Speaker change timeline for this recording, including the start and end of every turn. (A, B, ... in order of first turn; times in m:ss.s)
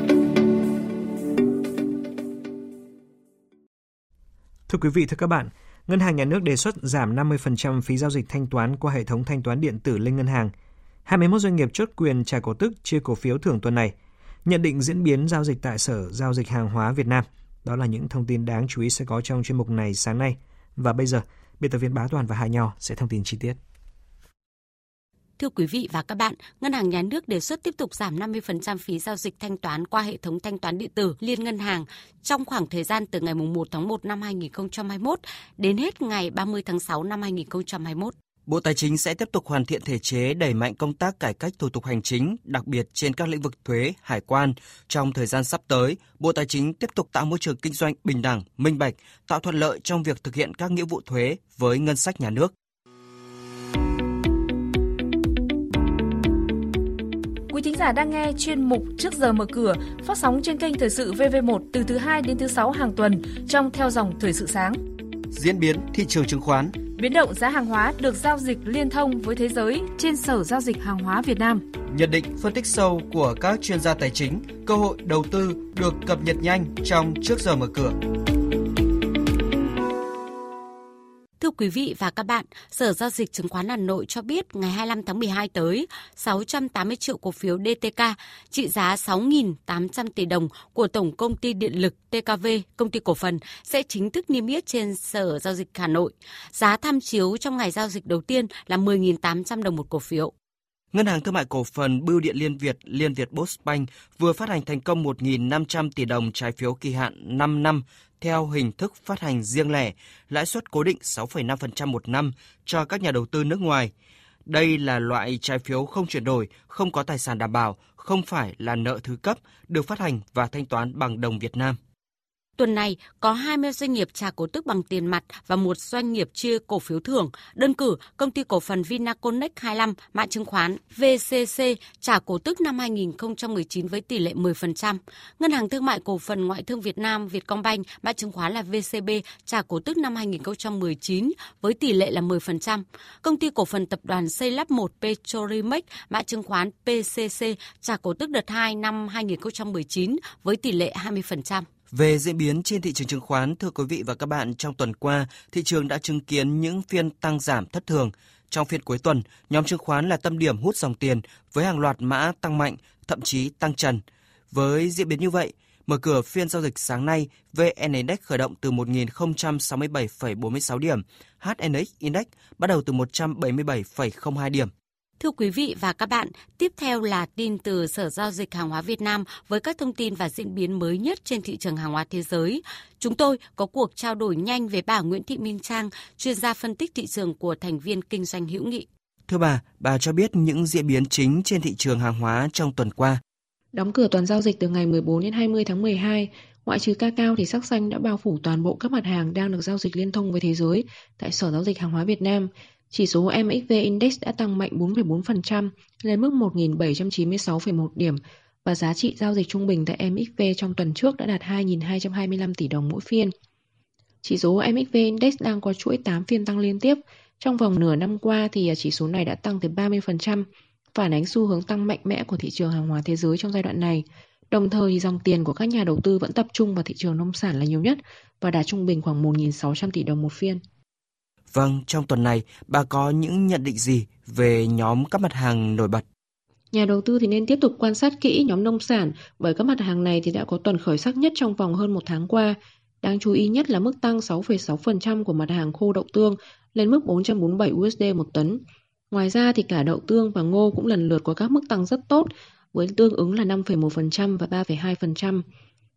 0:04.7-0:10.5 A
0:11.0-0:13.9 A
0:14.4-0:23.6 A
0:25.4-0:38.1 B
0:38.5-0:52.5 C
0:57.5-1:04.8 D
1:05.3-1:06.8 C
1:07.0-1:11.6 D
1:11.9-1:18.0 C
1:21.4-1:40.3 B
1:40.9-1:53.9 C
1:54.4-2:01.8 C
2:02.6-2:31.7 B
2:31.9-2:54.7 C
2:55.2-3:08.9 B
3:09.3-3:13.2 C
3:13.7-3:33.3 E
3:34.2-3:50.6 E
3:51.5-3:56.0 C
3:56.7-4:15.4 E